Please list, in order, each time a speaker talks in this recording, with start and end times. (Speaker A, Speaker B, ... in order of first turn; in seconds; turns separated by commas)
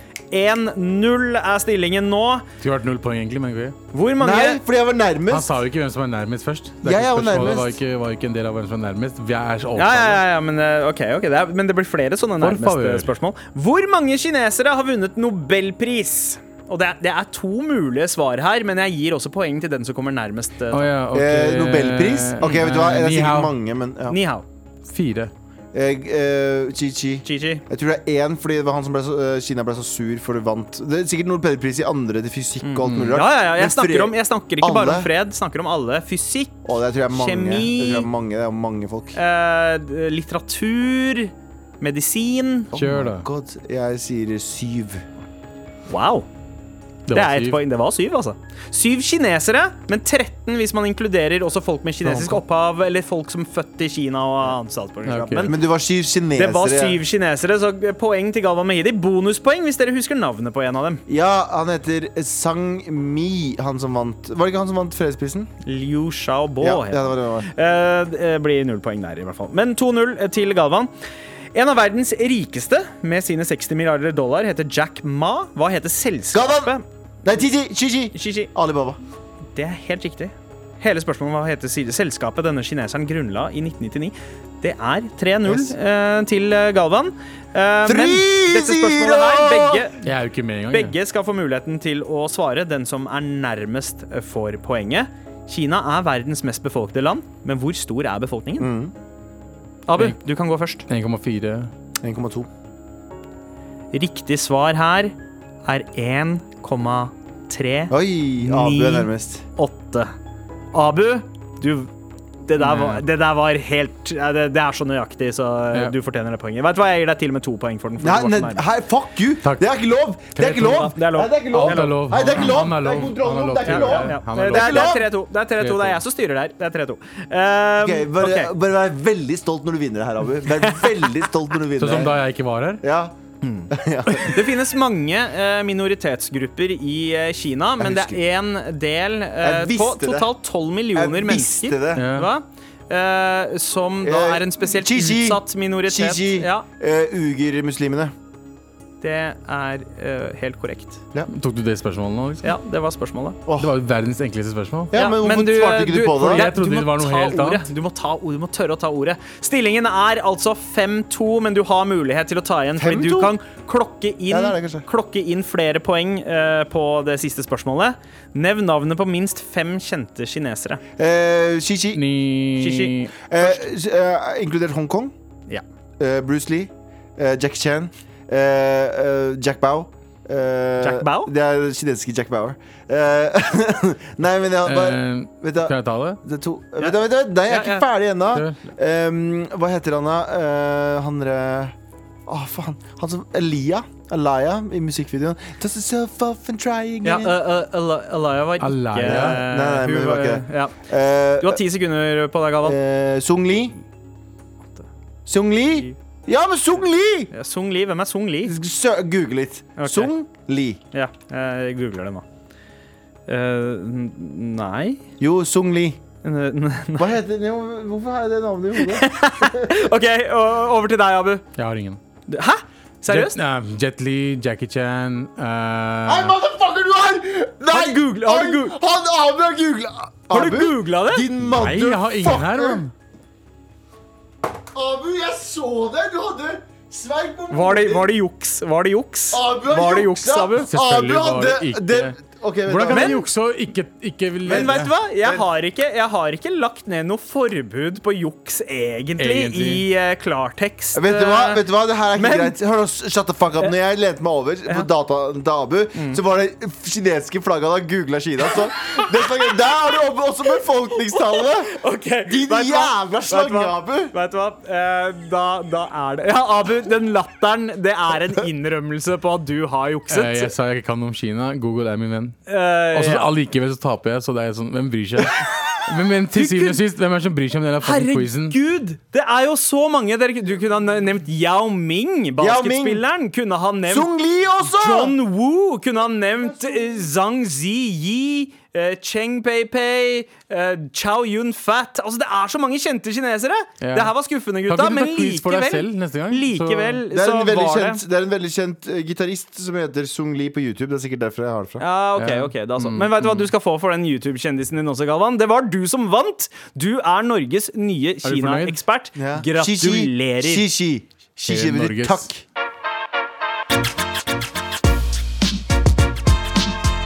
Speaker A: 0.3-2.5, Speaker B: 2.6-3.8, Speaker A: 3.9-4.6, Speaker C: 4.2-5.5, Speaker B: 5.3-10.2, Speaker C: 6.8-7.8, Speaker A: 9.8-20.9, Speaker B: 12.4-13.1, Speaker B: 20.7-23.5, Speaker C: 21.1-24.2, Speaker A: 24.1-24.4, Speaker B: 24.9-25.3, Speaker C: 25.7-35.1, Speaker A: 27.2-27.6, Speaker A: 32.6-38.1, Speaker B: 32.8-33.1, Speaker C: 36.6-39.1, Speaker A: 39.1-42.7, Speaker C: 42.7-45.0, Speaker B: 42.7-43.2, Speaker A: 45.9-46.3, Speaker B: 47.1-47.6, Speaker A: 47.1-55.6, Speaker C: 52.0-52.4, Speaker B: 55.0-55.5, Speaker C: 55.4-57.0, Speaker A: 56.4-61.0, Speaker C: 61.1-65.5, Speaker A: 65.6-70.9, Speaker C: 66.6-67.5, Speaker A: 71.5-76.8, Speaker C: 76.3-79.0, Speaker A: 78.1-78.5, Speaker A: 79.5-90.0, Speaker C: 85.4-85.7, Speaker C: 87.8-89.8, Speaker B: 90.0-91.0, Speaker A: 90.7-98.7, Speaker C: 98.6-98.9, Speaker A: 99.9-100.8, Speaker B: 100.9-101.7, Speaker C: 102.0-102.5, Speaker A: 103.9-110.1, Speaker C: 107.9-109.4, Speaker A: 110.7-111.9, Speaker A: 112.5-118.6, Speaker B: 112.6-113.0, Speaker C: 118.0-125.0, Speaker B: 120.4-120.8, Speaker A: 120.4-122.0, Speaker B: 121.5-125.0, Speaker A: 123.6-128.5, Speaker B: 125.6-126.0, Speaker C: 127.8-132.2, Speaker A: 130.5-131.0, Speaker B: 131.8-132.8, Speaker C: 132.8-133.2, Speaker A: 133.4-146.7, Speaker C: 133.7-134.6, Speaker C: 137.8-138.2, Speaker C: 139.4-140.3, Speaker C: 140.9-142.0, Speaker B: 141.9-142.3, Speaker C: 144.0-148.1, Speaker A: 149.0-151.0, Speaker B: 151.3-152.6, Speaker A: 152.4-153.4, Speaker C: 153.4-153.7, Speaker B: 153.6-154.9, Speaker C: 154.9-156.4, Speaker A: 154.9-170.8, Speaker B: 156.2-157.7, Speaker C: 162.8-163.3, Speaker C: 164.3-164.8, Speaker C: 171.0-172.0, Speaker B: 171.9-173.1, Speaker A: 172.6-173.6, Speaker C: 173.3-175.1, Speaker C: 176.0-191.7, Speaker A: 180.8-181.3, Speaker B: 184.6-186.2, Speaker A: 187.5-187.8, Speaker B: 188.3-188.6, Speaker C: 192.3-197.4, Speaker A: 197.0-200.8, Speaker B: 198.6-199.4, Speaker C: 199.0-201.6, Speaker A: 201.4-202.8, Speaker C: 202.6-203.8, Speaker C: 205.2-207.3, Speaker A: 207.3-208.5, Speaker C: 208.4-210.8, Speaker A: 209.8-210.1, Speaker A: 210.9-212.2, Speaker A: 213.3-215.0, Speaker C: 215.2-216.0, Speaker A: 216.2-217.1, Speaker C: 217.0-219.9, Speaker A: 218.8-221.4, Speaker B: 221.6-222.0, Speaker A: 222.3-223.4, Speaker B: 223.1-226.3, Speaker C: 226.1-232.8, Speaker A: 227.7-228.8, Speaker A: 230.3-231.3, Speaker B: 231.5-232.9, Speaker C: 234.7-238.1, Speaker A: 237.5-240.7, Speaker C: 239.3-243.2, Speaker B: 240.6-242.2, Speaker B: 242.7-244.9, Speaker A: 242.9-243.2, Speaker C: 244.4-245.4, Speaker A: 244.4-251.6, Speaker B: 249.2-249.8, Speaker C: 250.9-264.1, Speaker A: 252.1-252.5, Speaker A: 261.1-270.5, Speaker B: 270.1-272.4, Speaker A: 272.5-273.3, Speaker B: 272.9-278.6, Speaker A: 276.3-276.8, Speaker A: 277.8-284.1, Speaker C: 282.4-283.0, Speaker C: 283.9-285.1, Speaker A: 284.6-298.0, Speaker B: 293.8-294.1, Speaker B: 294.7-297.0, Speaker C: 297.1-301.8, Speaker A: 301.8-310.6, Speaker B: 302.2-303.5, Speaker B: 308.2-308.8, Speaker C: 309.1-312.4, Speaker B: 311.5-312.3